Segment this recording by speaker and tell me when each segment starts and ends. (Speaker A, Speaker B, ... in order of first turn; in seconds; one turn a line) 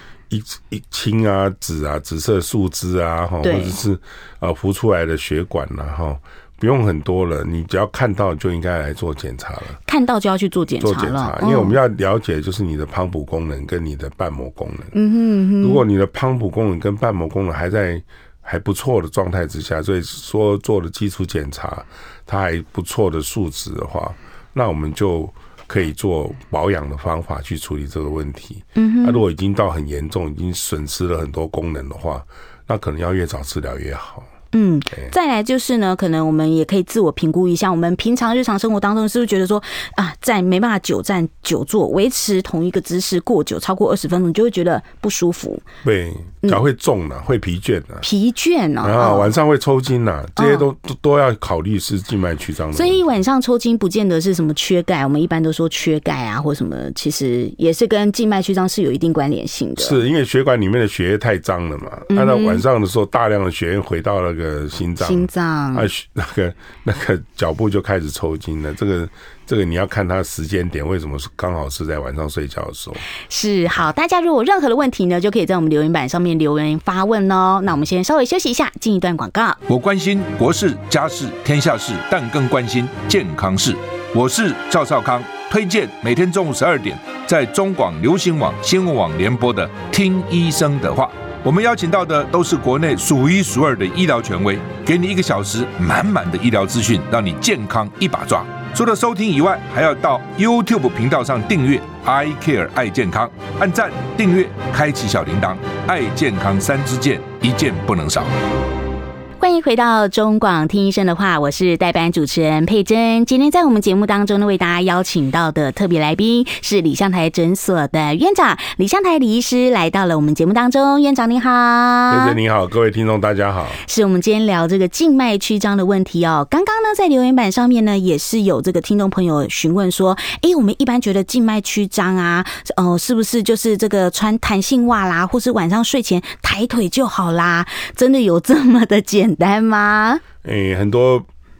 Speaker A: 0.3-9.8
Speaker B: 3.4-3.8
Speaker B: 9.9-11.8
Speaker A: 10.8-14.9
Speaker B: 14.9-15.8
Speaker A: 15.6-34.3
Speaker B: 28.8-29.2
Speaker B: 34.5-45.6
Speaker A: 45.8-48.0
Speaker B: 48.0-49.3
Speaker A: 48.8-53.0
Speaker B: 50.4-50.6
Speaker B: 52.7-60.0
Speaker A: 59.8-73.0
Speaker B: 62.1-62.6
Speaker B: 65.0-65.9
Speaker B: 73.3-79.6
Speaker C: 79.7-108.3
Speaker B: 109.4-122.4
Speaker A: 122.1-123.8
Speaker B: 123.9-140.2
Speaker A: 140.4-141.2